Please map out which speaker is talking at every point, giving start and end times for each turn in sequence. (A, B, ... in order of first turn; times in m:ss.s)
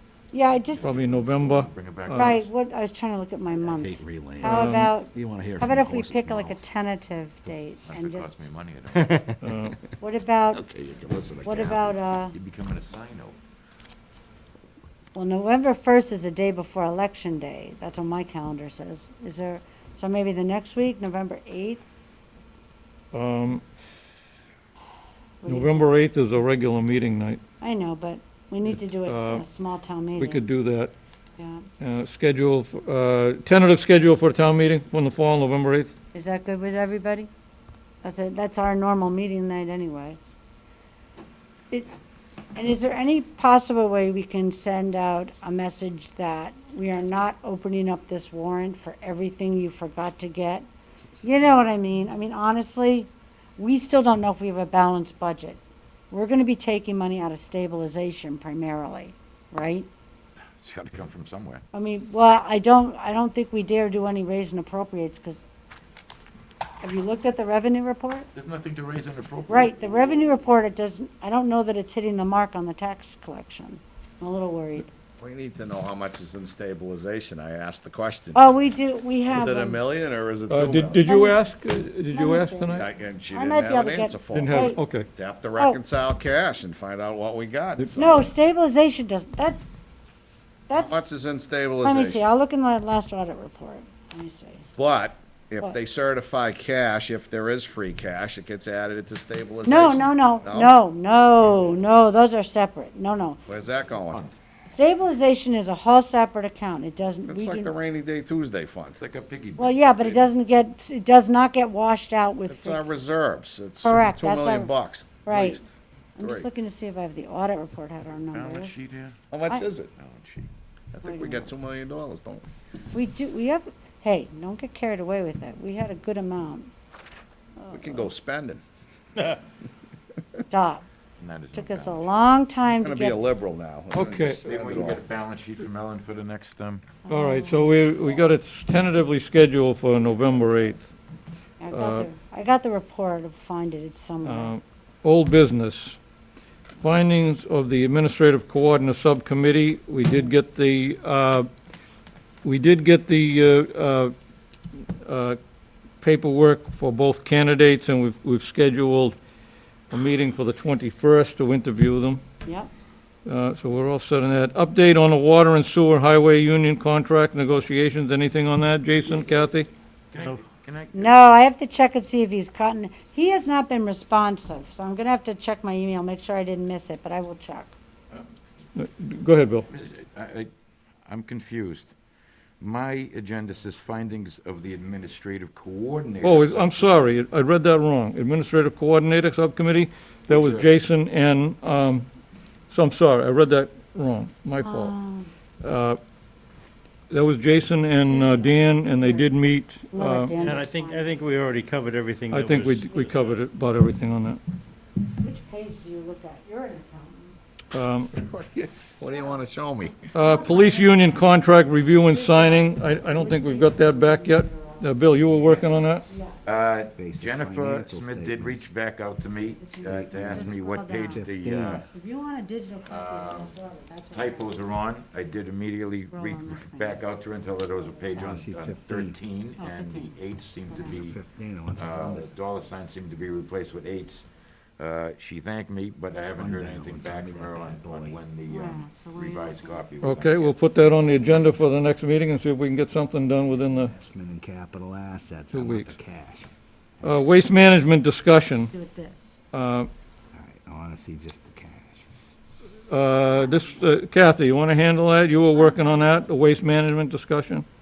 0:00.3-0:01.0 A
0:00.7-0:02.5 B
0:00.8-0:02.4 C
0:02.1-0:08.5 A
0:03.5-0:06.6 D
0:04.4-0:04.9 C
0:07.9-0:09.2 B
0:08.9-0:09.7 D
0:09.4-0:09.8 C
0:10.0-0:10.6 A
0:10.5-0:12.0 D
0:11.4-0:12.4 A
0:12.3-0:13.4 B
0:15.1-0:21.8 A
0:23.1-0:23.6 C
0:25.4-0:25.9 A
0:25.5-0:27.4 C
0:27.6-0:30.4 A
0:29.0-0:29.4 C
0:30.2-0:30.9 C
0:31.4-0:31.6 A
0:31.8-0:35.9 C
0:36.1-0:37.3 A
0:38.0-0:40.2 A
0:42.6-0:50.7 A
0:51.2-0:55.6 A
0:56.1-0:59.9 A
1:00.6-1:01.6 B
1:01.7-1:05.4 A
1:06.8-1:08.3 A
1:08.3-1:10.2 B
1:09.5-1:14.9 A
1:15.2-1:18.5 E
1:18.4-1:19.8 A
1:19.3-1:21.0 E
1:20.5-1:22.8 C
1:21.0-1:21.4 A
1:22.1-1:24.8 A
1:22.7-1:28.3 E
1:24.3-1:25.1 C
1:25.6-1:25.8 A
1:27.9-1:29.6 A
1:30.7-1:31.0 A
1:30.7-1:32.2 E
1:31.8-1:34.7 A
1:34.8-1:40.8 E
1:39.6-1:43.4 A
1:43.5-1:44.2 E
1:43.8-1:44.4 B
1:44.7-1:47.7 A
1:47.3-1:49.0 E
1:49.0-1:50.3 B
1:49.6-1:52.9 A
1:52.5-1:56.5 E
1:53.8-1:55.6 A
1:56.2-1:58.7 A
1:58.3-1:59.2 B
1:59.3-1:59.9 E
2:00.0-2:00.5 B
2:00.9-2:02.4 E
2:01.0-2:01.5 A
2:02.9-2:06.7 A
2:07.6-2:08.1 A
2:07.7-2:08.6 E
2:10.5-2:10.8 A
2:11.2-2:12.1 B
2:11.5-2:13.3 A
2:12.7-2:15.0 E
2:13.9-2:14.4 C
2:14.4-2:16.8 B
2:17.1-2:17.9 A
2:17.1-2:20.9 C
2:21.6-2:24.6 A
2:21.7-2:22.1 C
2:24.2-2:26.0 C
2:26.8-2:31.5 C
2:32.4-2:34.1 C
2:34.8-2:35.4 C
2:36.0-2:39.2 C
2:39.9-2:42.2 C
2:42.4-2:42.7 A
2:43.2-2:49.7 C
2:50.1-2:51.2 B
2:50.9-2:57.7 A
2:58.8-2:59.7 C
2:59.7-3:00.5 B
3:01.0-3:01.9 B
3:02.6-3:07.0 B
3:06.2-3:12.1 C
3:10.3-3:10.8 B
3:12.7-3:14.9 C
3:14.6-3:15.3 A
3:15.6-3:16.0 C
3:17.1-3:20.3 C
3:18.0-3:19.3 A
3:19.9-3:21.2 A
3:20.3-3:23.4 F
3:22.3-3:24.4 C
3:25.2-3:27.4 A
3:27.7-3:28.1 C
3:28.1-3:30.1 E
3:30.1-3:36.0 C
3:30.2-3:36.6 A
3:36.4-3:41.8 B
3:37.0-3:38.7 D
3:39.6-3:41.2 A
3:40.1-3:40.5 D
3:41.1-3:41.8 D
3:41.8-3:44.9 A
3:42.9-3:43.5 B
3:44.1-3:51.2 B
3:46.1-3:48.3 A
3:48.1-3:49.2 D
3:49.6-3:50.2 A
3:50.7-3:51.0 A
3:50.9-3:52.3 D
3:51.7-3:54.3 B
3:54.8-4:00.6 B
3:56.4-3:58.2 D
3:58.5-3:59.9 A
4:00.0-4:03.9 C
4:01.0-4:01.5 A
4:03.7-4:07.3 D
4:05.5-4:06.0 C
4:07.0-4:08.7 C
4:08.7-4:09.4 A
4:09.5-4:09.9 C
4:10.3-4:12.0 D
4:12.9-4:17.6 C
4:13.3-4:13.8 A
4:15.5-4:16.2 A